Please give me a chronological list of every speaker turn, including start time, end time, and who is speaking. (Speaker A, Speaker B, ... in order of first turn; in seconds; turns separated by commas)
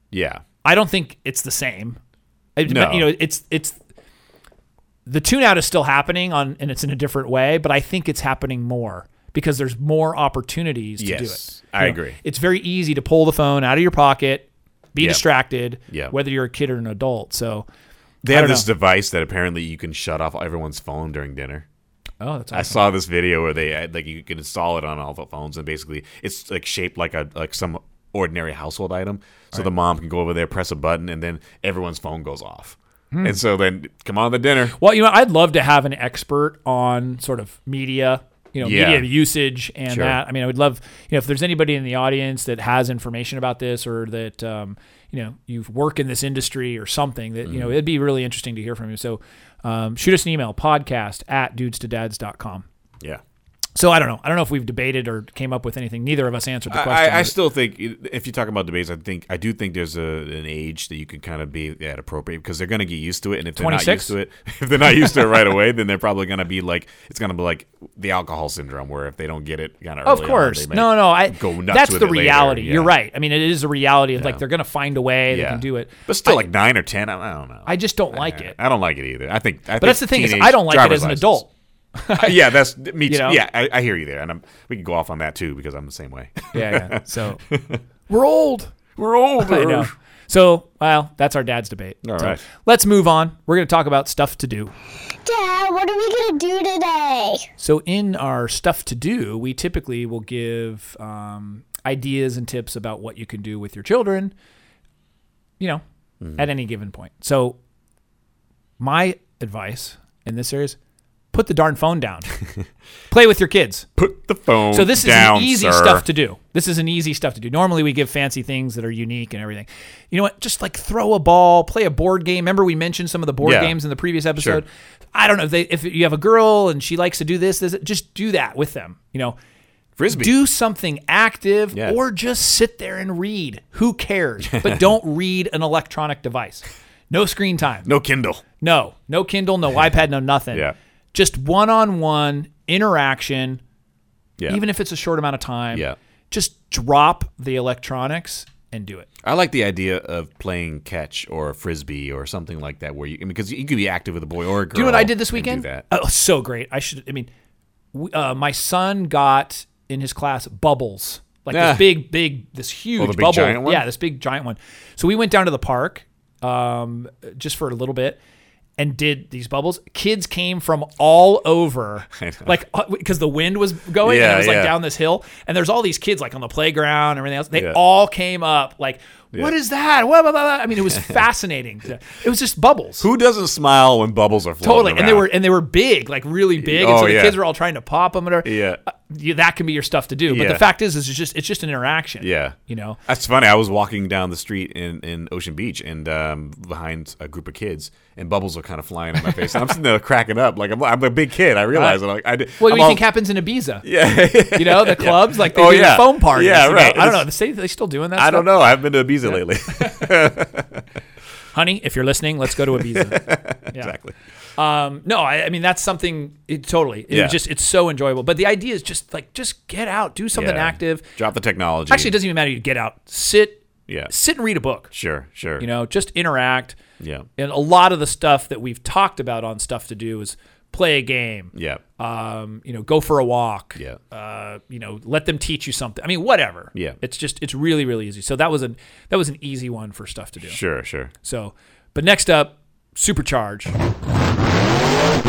Speaker A: 0.1-0.4, Speaker B: 0.6-2.0, Speaker B: 2.5-3.8, Speaker A: 2.7-3.1, Speaker B: 5.0-17.7, Speaker A: 11.0-12.2, Speaker A: 15.9-16.1, Speaker A: 18.2-21.6, Speaker B: 18.3-18.6, Speaker B: 22.2-22.8, Speaker A: 22.5-34.8, Speaker B: 33.1-33.4, Speaker B: 34.8-52.6, Speaker A: 38.6-39.1, Speaker A: 39.9-40.2, Speaker A: 47.5-47.7, Speaker B: 53.7-57.3, Speaker A: 56.7-72.9, Speaker B: 63.5-64.1, Speaker B: 70.0-76.5, Speaker A: 74.2-74.4, Speaker A: 75.3-81.4, Speaker B: 77.7-78.5, Speaker B: 79.8-82.5, Speaker A: 82.1-87.8, Speaker B: 83.0-83.4, Speaker B: 86.5-87.4, Speaker B: 88.1-88.7, Speaker A: 89.0-89.9, Speaker B: 89.4-94.7, Speaker A: 92.0-92.4, Speaker C: 95.2-97.5, Speaker B: 97.6-104.3, Speaker B: 106.4-107.6, Speaker B: 108.8-110.8, Speaker B: 111.3-112.3, Speaker B: 113.1-113.9, Speaker A: 114.0-116.0, Speaker B: 114.7-129.4, Speaker A: 123.4-123.8, Speaker A: 124.4-124.6, Speaker A: 130.0-130.3, Speaker B: 130.1-137.9, Speaker A: 137.8-138.4, Speaker B: 138.6-143.6, Speaker B: 144.5-149.1, Speaker A: 149.2-155.8, Speaker B: 154.7-157.3, Speaker B: 157.9-168.2, Speaker A: 161.5-162.0, Speaker A: 163.0-163.8, Speaker B: 168.8-183.0, Speaker A: 172.1-172.5, Speaker A: 174.0-174.8, Speaker A: 180.9-181.2, Speaker A: 183.0-185.3, Speaker B: 184.6-193.0, Speaker A: 186.6-187.4, Speaker A: 188.4-188.8, Speaker A: 190.3-190.7, Speaker A: 192.2-203.0, Speaker B: 201.7-202.0, Speaker B: 202.6-203.8, Speaker A: 203.8-207.3, Speaker B: 204.5-208.5, Speaker A: 208.2-210.8, Speaker B: 209.3-210.1, Speaker B: 211.5-213.9, Speaker A: 212.8-214.1, Speaker B: 214.6-221.1, Speaker A: 217.1-217.4, Speaker A: 220.3-222.2, Speaker B: 221.9-224.9, Speaker A: 224.9-225.7, Speaker B: 225.6-226.8, Speaker A: 227.0-227.3, Speaker B: 227.4-240.6, Speaker A: 231.5-231.8, Speaker A: 240.5-241.1, Speaker B: 241.2-243.7